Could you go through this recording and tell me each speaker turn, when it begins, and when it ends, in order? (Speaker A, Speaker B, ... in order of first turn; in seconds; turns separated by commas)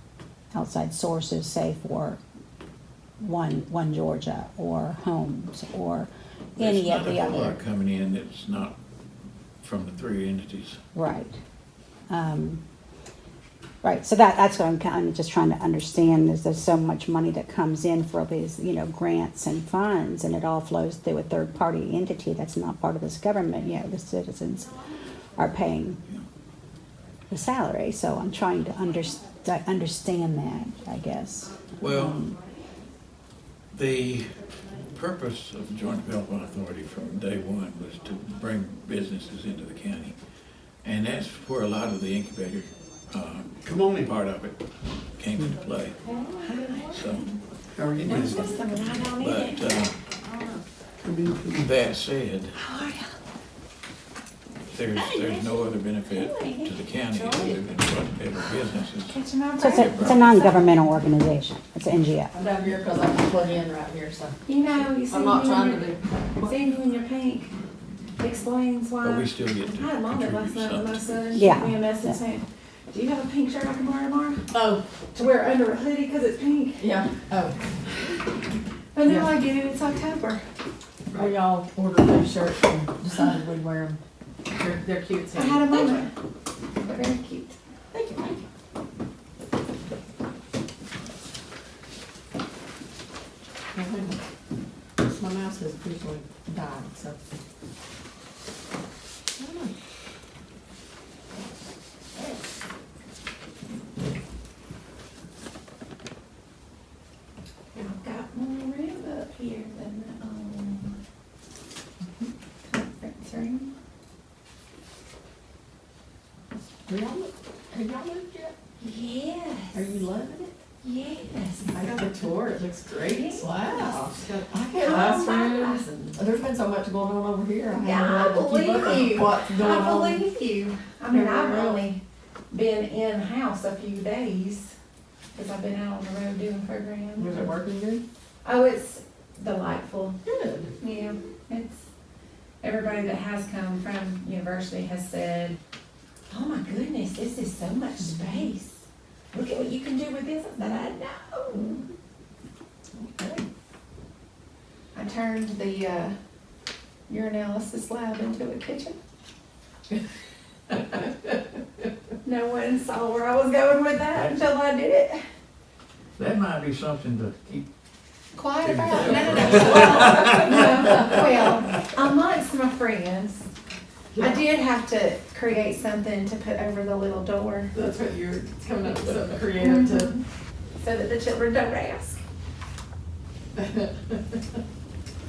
Speaker A: 0.5-2.2, Speaker A: 3.2-7.6, Speaker B: 6.6-8.8, Speaker B: 9.6-10.8, Speaker A: 10.9-11.4, Speaker A: 12.1-12.6, Speaker A: 13.8-24.8, Speaker A: 25.4-26.0, Speaker A: 27.3-32.4, Speaker B: 31.8-32.3, Speaker B: 33.7-40.2, Speaker B: 40.8-46.0, Speaker C: 43.6-44.1, Speaker D: 46.0-47.4, Speaker B: 46.9-47.3, Speaker C: 47.8-48.5, Speaker D: 48.0-50.6, Speaker B: 49.1-50.0, Speaker C: 51.0-51.7, Speaker B: 51.5-52.6, Speaker D: 52.6-53.1, Speaker B: 54.7-59.2, Speaker D: 55.0-57.5, Speaker D: 59.0-60.9, Speaker A: 59.6-62.3, Speaker B: 59.7-60.2, Speaker E: 62.3-66.5, Speaker D: 64.5-67.5, Speaker D: 68.2-74.4, Speaker B: 69.0-71.1, Speaker A: 71.3-71.8, Speaker E: 74.5-74.8, Speaker D: 75.1-76.9, Speaker E: 76.8-77.6, Speaker D: 78.9-80.4, Speaker E: 79.0-79.3, Speaker E: 81.1-85.9, Speaker D: 85.3-86.1, Speaker D: 86.8-87.6, Speaker E: 87.9-88.5, Speaker E: 93.7-94.2, Speaker E: 95.0-97.2, Speaker E: 99.4-99.8, Speaker D: 107.7-111.0, Speaker D: 112.6-113.7, Speaker E: 116.9-118.5, Speaker D: 118.8-119.9, Speaker E: 119.7-120.5, Speaker D: 120.8-122.0, Speaker E: 121.7-130.2, Speaker D: 123.1-126.2, Speaker D: 127.7-134.7, Speaker E: 131.1-131.8, Speaker D: 135.3-137.5, Speaker E: 137.2-138.0, Speaker D: 138.4-140.2, Speaker E: 140.2-140.7, Speaker D: 140.8-141.8, Speaker D: 142.6-145.6, Speaker D: 146.3-148.8, Speaker D: 149.3-151.9, Speaker E: 153.0-153.5, Speaker D: 154.9-156.2, Speaker D: 157.1-159.0, Speaker D: 162.2-165.2, Speaker B: 164.1-164.4, Speaker B: 166.2-167.7, Speaker D: 168.3-173.5, Speaker B: 168.6-171.1, Speaker E: 169.2-170.1, Speaker E: 174.1-174.4, Speaker D: 174.2-177.7, Speaker E: 177.7-180.2, Speaker D: 179.6-180.2, Speaker D: 180.8-182.2